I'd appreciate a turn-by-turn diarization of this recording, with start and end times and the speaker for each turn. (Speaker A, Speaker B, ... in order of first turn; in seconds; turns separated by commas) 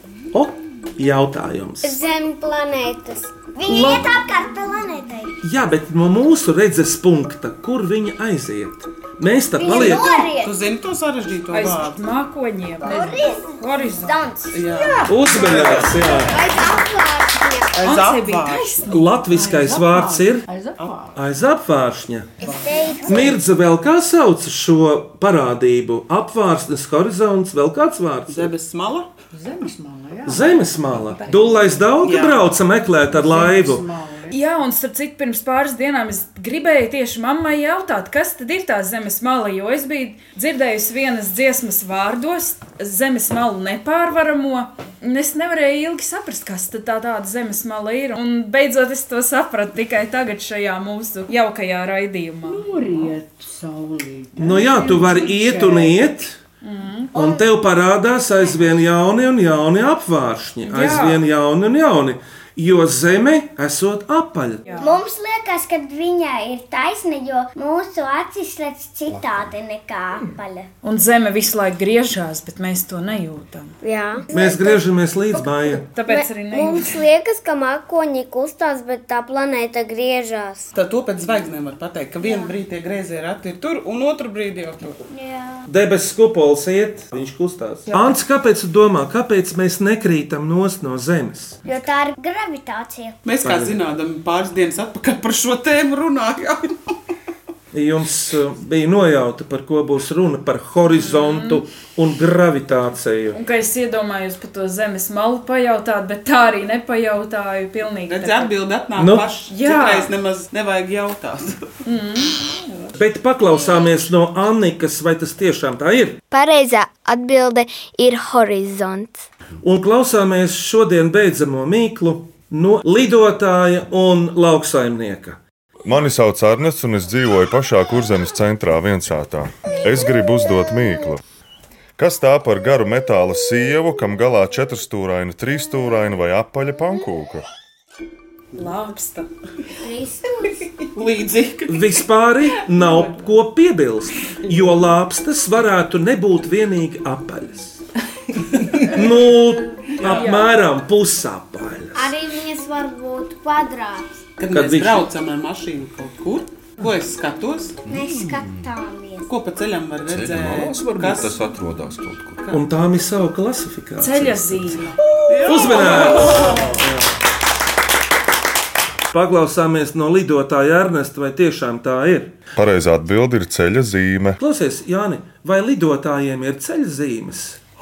Speaker A: 0.3-2.0, Speaker B: 1.8-3.4, Speaker C: 3.5-5.3, Speaker A: 3.7-4.0, Speaker A: 5.4-10.1, Speaker C: 9.6-10.5, Speaker B: 9.7-10.3, Speaker D: 9.7-12.0, Speaker E: 11.5-14.2, Speaker C: 12.8-14.6, Speaker D: 14.5-16.2, Speaker A: 15.1-16.3, Speaker B: 16.3-17.6, Speaker C: 16.4-16.8, Speaker D: 17.7-19.0, Speaker E: 17.8-19.1, Speaker A: 18.9-20.5, Speaker F: 19.3-21.1, Speaker A: 21.1-22.3, Speaker C: 22.5-23.2, Speaker A: 23.1-28.5, Speaker D: 28.3-29.1, Speaker F: 29.3-31.4, Speaker A: 30.2-33.9, Speaker D: 32.0-32.6, Speaker F: 33.1-34.3, Speaker E: 34.3-52.7, Speaker F: 52.5-56.1, Speaker A: 54.4-56.4, Speaker E: 56.6-57.1, Speaker C: 57.1-57.5, Speaker A: 57.1-64.7, Speaker E: 60.6-61.2, Speaker E: 64.7-65.0, Speaker C: 64.8-70.7, Speaker G: 69.1-69.5, Speaker E: 70.8-73.8, Speaker B: 73.8-74.3, Speaker A: 74.3-75.9, Speaker C: 74.4-74.7, Speaker E: 75.5-77.0, Speaker B: 76.1-80.7, Speaker D: 80.7-85.0, Speaker C: 82.2-82.5, Speaker C: 85.1-85.7, Speaker A: 85.7-91.6, Speaker C: 91.7-93.2, Speaker D: 93.2-96.9, Speaker A: 93.4-93.8, Speaker A: 97.7-103.4, Speaker E: 100.9-101.6, Speaker E: 103.3-108.5, Speaker D: 108.1-111.6, Speaker A: 109.0-109.3, Speaker E: 109.5-110.1, Speaker E: 111.8-112.4, Speaker A: 113.0-116.2, Speaker H: 116.3-119.2, Speaker A: 119.6-125.4, Speaker I: 125.8-131.2, Speaker I: 132.0-137.4, Speaker E: 138.6-139.3, Speaker B: 139.9-140.2, Speaker D: 140.9-141.8, Speaker A: 141.7-147.8, Speaker A: 148.8-152.1, Speaker D: 150.0-150.4, Speaker E: 150.0-150.5, Speaker B: 151.9-154.2, Speaker D: 154.4-157.8, Speaker A: 154.5-155.1, Speaker G: 157.8-158.6, Speaker C: 157.9-159.3, Speaker D: 159.3-161.4, Speaker G: 160.1-162.4, Speaker A: 162.5-164.9, Speaker E: 164.0-165.0, Speaker D: 165.2-166.8, Speaker A: 165.4-167.1, Speaker A: 169.1-172.3, Speaker I: 172.6-174.4, Speaker A: 174.4-177.6